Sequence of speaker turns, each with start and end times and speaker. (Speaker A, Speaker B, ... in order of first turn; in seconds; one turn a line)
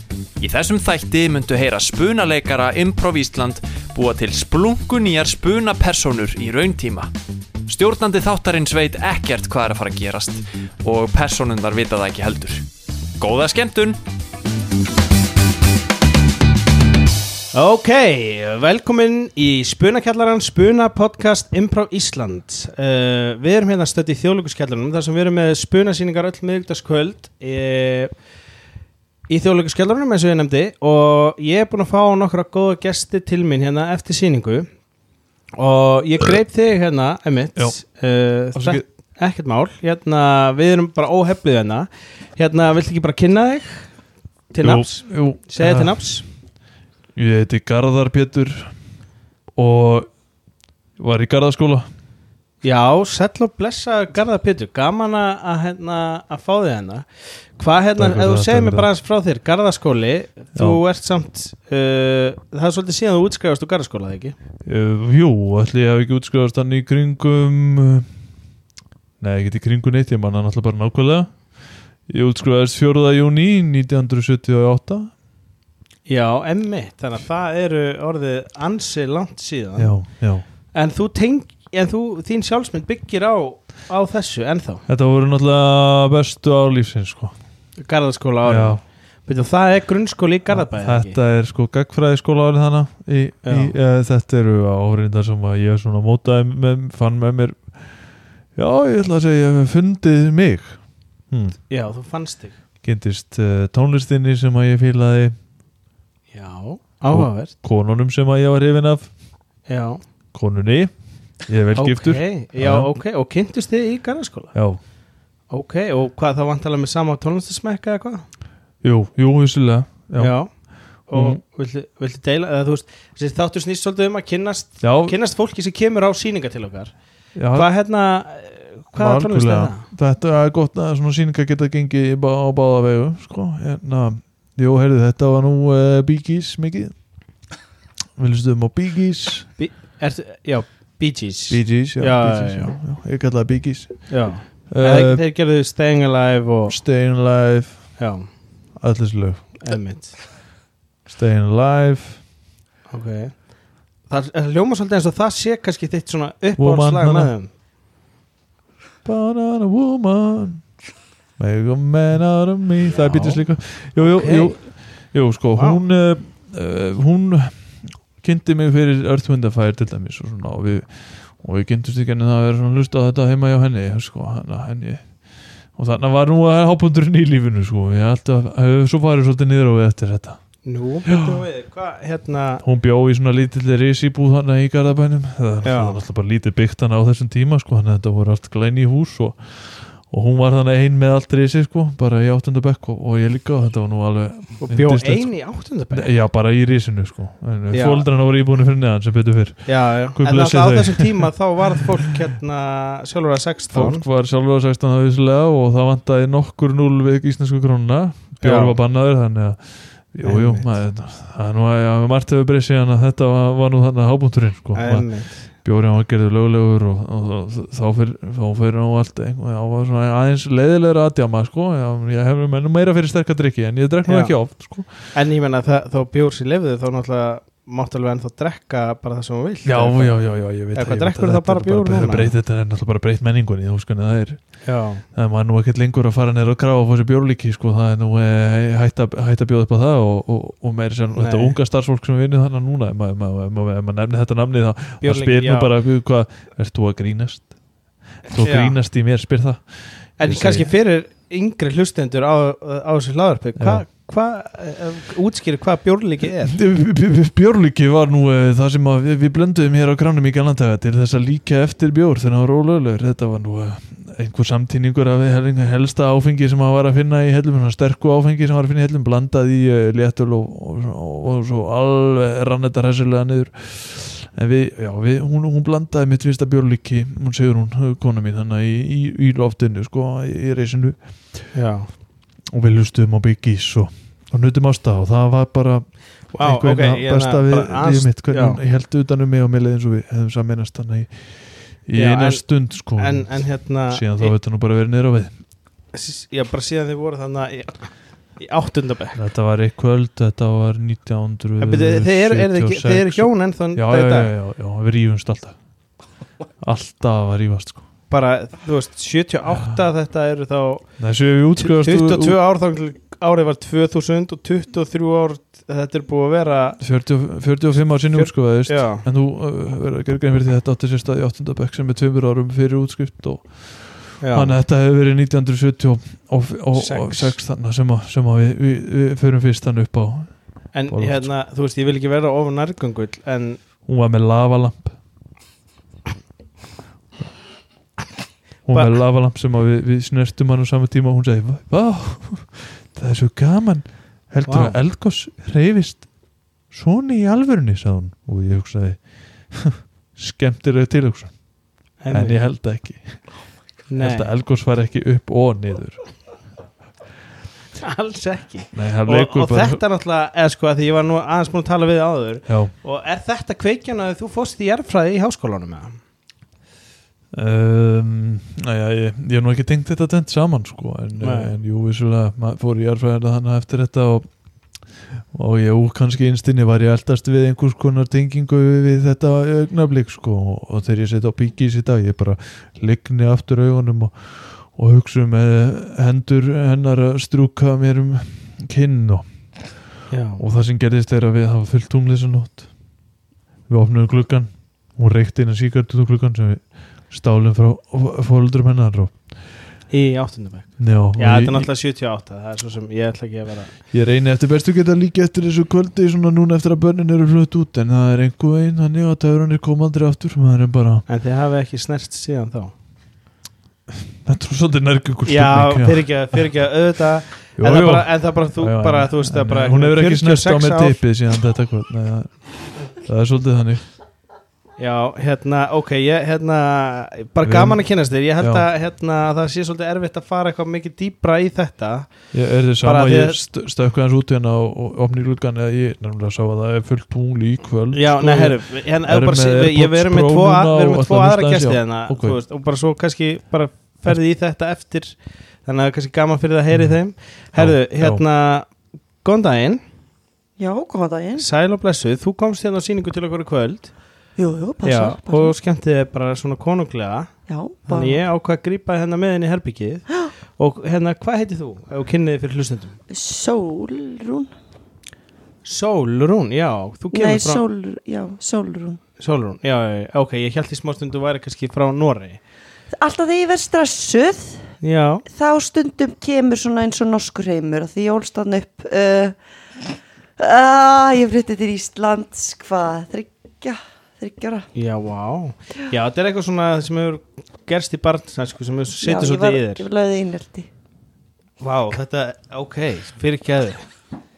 Speaker A: 0.4-7.1
Speaker A: 7.7-12.7
Speaker A: 13.2-14.0
Speaker B: 17.5-28.1
Speaker B: 29.3-34.7
Speaker B: 35.6-43.9
Speaker C: 38.5-38.8
Speaker B: 44.5-46.2
Speaker C: 44.6-46.0
Speaker C: 47.1-48.7
Speaker C: 49.6-50.1
Speaker C: 51.0-51.9
Speaker B: 52.6-64.4
Speaker C: 58.0-58.9
Speaker C: 60.5-60.8
Speaker C: 64.7-68.1
Speaker C: 69.2-75.1
Speaker B: 76.1-80.0
Speaker C: 79.8-80.5
Speaker B: 80.7-84.8
Speaker C: 84.9-87.3
Speaker B: 87.8-91.2
Speaker C: 88.4-88.8
Speaker C: 90.5-101.6
Speaker B: 93.5-93.7
Speaker B: 101.7-102.6
Speaker C: 102.8-105.4
Speaker B: 106.3-107.5
Speaker C: 107.1-109.1
Speaker B: 109.7-110.0
Speaker C: 110.3-112.9
Speaker B: 111.8-114.6
Speaker C: 114.5-114.8
Speaker B: 115.5-118.3
Speaker C: 118.8-121.4
Speaker B: 120.2-127.0
Speaker C: 124.8-125.2
Speaker C: 127.3-127.7
Speaker B: 127.5-129.8
Speaker C: 128.9-137.0
Speaker C: 138.2-139.5
Speaker B: 139.6-142.7
Speaker C: 141.5-145.2
Speaker B: 144.1-146.8
Speaker C: 146.7-148.0
Speaker B: 148.0-148.3
Speaker C: 148.8-149.6
Speaker B: 149.6-150.2
Speaker C: 151.1-152.2
Speaker B: 152.9-153.5
Speaker B: 154.1-157.5
Speaker C: 156.6-157.3
Speaker C: 159.1-160.7
Speaker C: 161.4-180.4
Speaker B: 162.9-164.8
Speaker B: 165.6-165.8
Speaker B: 180.6-182.6
Speaker C: 181.1-181.4
Speaker C: 182.6-195.4
Speaker B: 185.6-186.0
Speaker B: 194.6-196.1
Speaker C: 195.9-201.3
Speaker B: 197.7-198.0
Speaker B: 199.7-204.0
Speaker C: 203.7-225.2
Speaker B: 208.4-208.8
Speaker B: 210.2-210.7
Speaker B: 214.8-215.5
Speaker B: 224.1-224.3
Speaker B: 225.1-232.3
Speaker C: 229.6-247.5
Speaker B: 234.6-235.0
Speaker B: 241.2-241.6
Speaker B: 245.0-245.7
Speaker C: 248.2-250.7
Speaker B: 248.4-248.8
Speaker B: 250.2-256.6
Speaker C: 253.6-253.9
Speaker C: 256.2-281.5
Speaker B: 281.5-281.9
Speaker C: 282.5-295.4
Speaker B: 286.3-288.6
Speaker B: 292.0-294.3
Speaker B: 295.9-297.8
Speaker B: 298.4-299.2
Speaker C: 299.2-305.6
Speaker B: 301.6-304.3
Speaker C: 306.6-307.8
Speaker B: 308.1-310.9
Speaker C: 311.0-312.4
Speaker B: 311.6-316.8
Speaker C: 316.8-331.3
Speaker B: 318.1-319.0
Speaker B: 324.2-324.6
Speaker B: 326.8-327.4
Speaker B: 330.7-333.6
Speaker C: 333.9-335.0
Speaker C: 338.7-346.1
Speaker B: 344.5-344.8
Speaker C: 346.7-351.4
Speaker B: 352.0-352.4
Speaker C: 352.1-353.4
Speaker B: 353.9-354.3
Speaker C: 354.0-356.0
Speaker B: 357.8-365.9
Speaker C: 358.7-359.8
Speaker C: 362.5-362.7
Speaker C: 367.3-389.2
Speaker B: 371.2-371.5
Speaker B: 390.1-390.4
Speaker C: 390.4-392.7
Speaker C: 393.7-399.3
Speaker B: 399.9-403.8
Speaker C: 400.8-401.7
Speaker C: 403.9-411.1
Speaker B: 411.1-412.7
Speaker C: 414.2-416.5
Speaker B: 415.3-421.0
Speaker C: 417.6-423.8
Speaker B: 424.8-432.1
Speaker C: 427.4-428.7
Speaker C: 432.3-442.4
Speaker B: 432.8-433.4
Speaker B: 437.9-448.7
Speaker C: 446.7-447.0
Speaker C: 447.6-448.2
Speaker B: 449.2-449.8
Speaker D: 450.6-451.5
Speaker B: 451.4-453.9
Speaker D: 454.4-455.6
Speaker B: 454.8-457.3
Speaker D: 457.5-458.2
Speaker B: 457.9-463.0
Speaker D: 463.1-464.5
Speaker B: 465.6-467.6
Speaker D: 467.1-469.0
Speaker B: 469.2-472.4
Speaker D: 472.9-474.7
Speaker B: 474.8-475.2
Speaker D: 475.3-479.4
Speaker D: 480.4-484.7
Speaker B: 484.8-489.9
Speaker D: 489.0-490.7
Speaker B: 491.6-493.8